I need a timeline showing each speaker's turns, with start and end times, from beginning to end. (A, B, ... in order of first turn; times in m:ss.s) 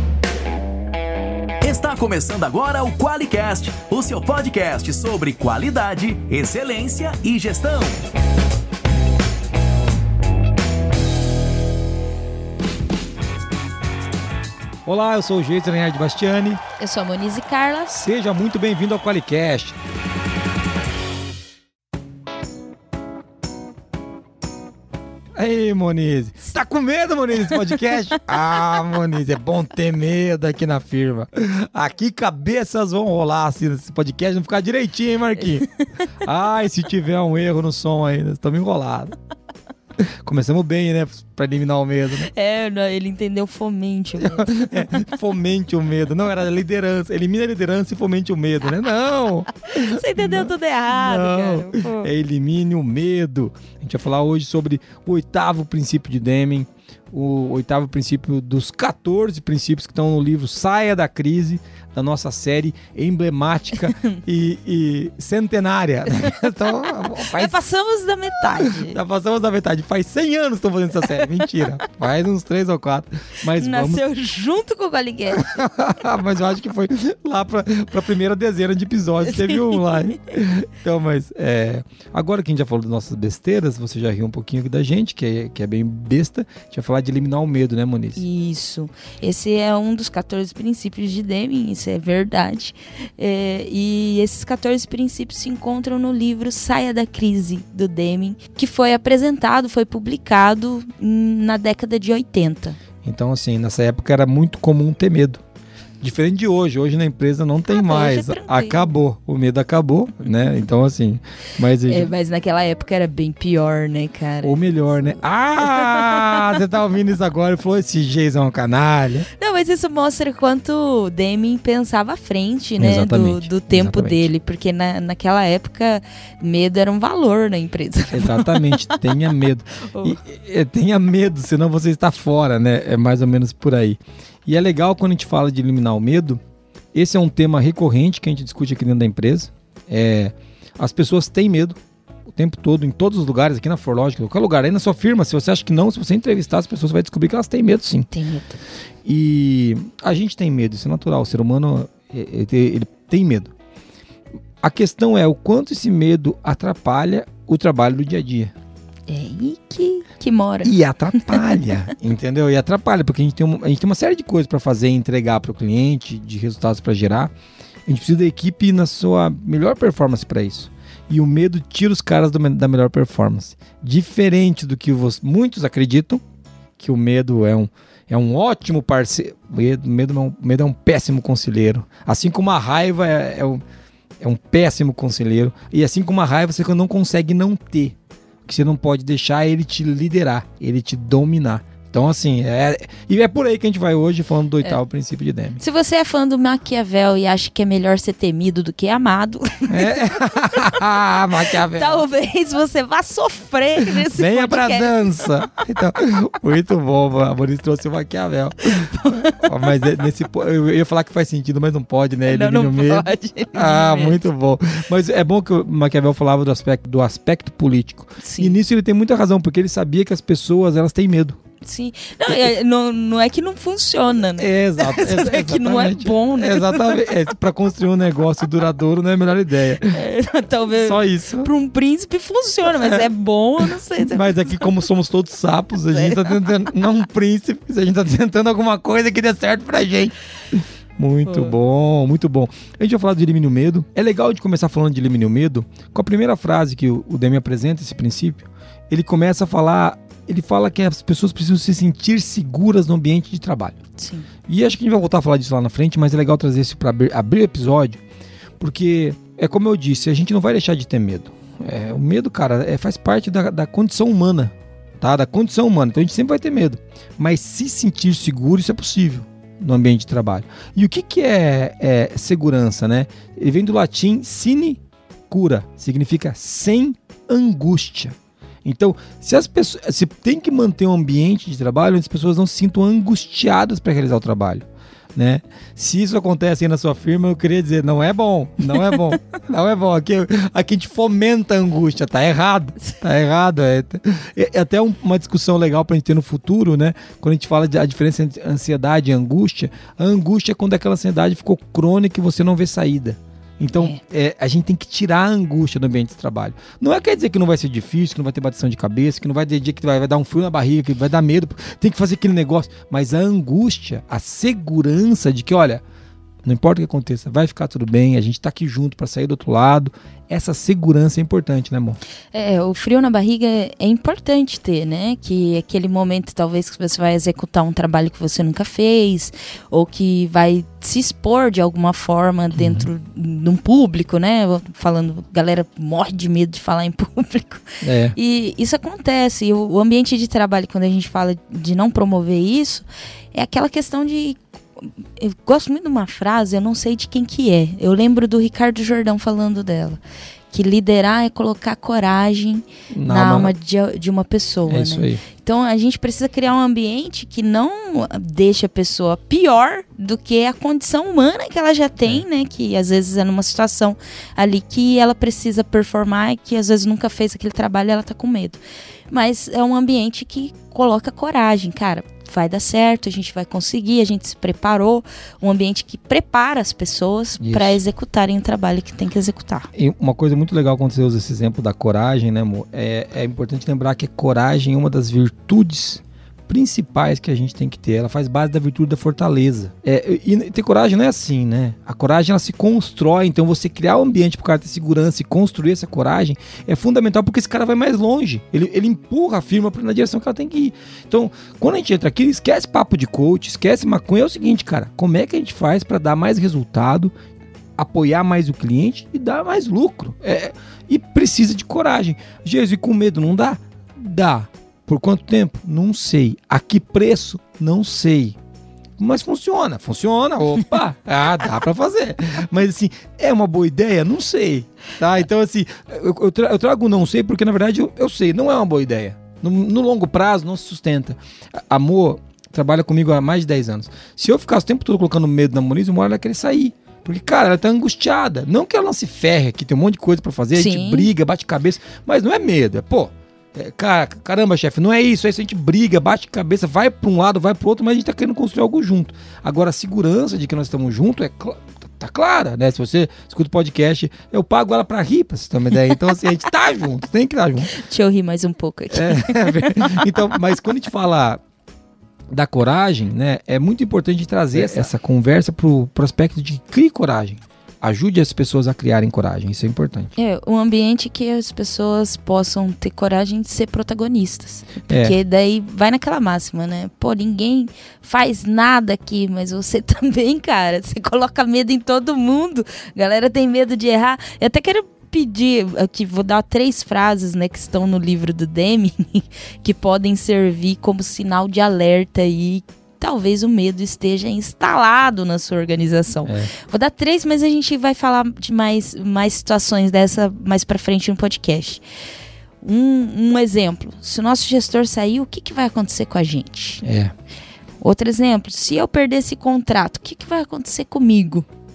0:01.6-0:08.0 A
0:14.8-0:16.6 B
0:16.8-0:17.9 C
0:17.9-0:19.7 B
0:25.4-0:35.7 B
0:35.6-0:36.0 C
0:36.2-0:39.2 B
0:40.2-0:42.3 B
0:42.3-0:45.0 C
0:44.2-1:07.5 B
0:49.7-0:52.1 C
1:03.8-1:04.2 C
1:07.2-1:09.0 C
1:08.6-1:14.0 B
1:11.2-1:11.4 C
1:13.6-1:15.4 C
1:15.4-1:28.2 B
1:19.3-1:20.0 C
1:28.2-1:42.8 C
1:43.0-1:45.4 B
1:46.0-1:52.1 B
1:47.7-1:48.9 C
1:51.8-1:56.4 C
1:54.4-1:59.3 B
1:59.4-2:09.0 C
2:02.8-2:04.3 B
2:08.1-2:16.4 B
2:09.9-2:10.2 C
2:16.9-2:21.8 B
2:22.3-2:28.1 B
2:28.1-2:28.6 C
2:29.0-2:33.5 B
2:34.6-2:38.5 B
2:39.1-2:41.6 C
2:40.6-2:47.3 B
2:47.8-2:56.2 B
2:56.8-3:03.6 B
3:04.2-3:07.9 B
3:08.5-3:15.6 B
3:15.6-3:20.8 C
3:19.7-3:22.0 B
3:21.5-3:25.4 C
3:23.9-3:41.4 B
3:28.6-3:29.4 C
3:32.3-3:34.2 C
3:38.2-3:38.6 C
3:41.6-3:47.0 C
3:44.4-3:50.0 B
3:49.9-3:54.7 C
3:50.8-3:51.5 B
3:52.8-3:53.1 B
3:53.7-4:13.8 B
3:55.9-3:56.7 C
4:01.3-4:01.5 C
4:14.0-4:14.3 C
4:14.5-4:18.0 B
4:18.6-5:15.8 B
5:16.4-5:22.0 B
5:22.3-5:50.0 C
5:32.5-5:32.9 B
5:37.8-5:38.2 B
5:50.5-6:19.7 C
5:52.9-5:53.5 B
5:54.7-5:55.2 B
6:17.4-6:17.8 B
6:19.7-6:47.1 B
6:47.8-6:58.4 B
6:59.0-7:37.7 B
7:20.5-7:21.1 C
7:37.7-7:40.1 C
7:38.9-7:41.4 B
7:42.3-7:50.1 B
7:44.6-7:44.8 C
7:50.2-8:21.8 C
7:54.9-7:55.1 B
8:16.2-8:16.5 B
8:22.6-8:26.8 C
8:26.8-8:27.1 B
8:27.8-8:31.4 C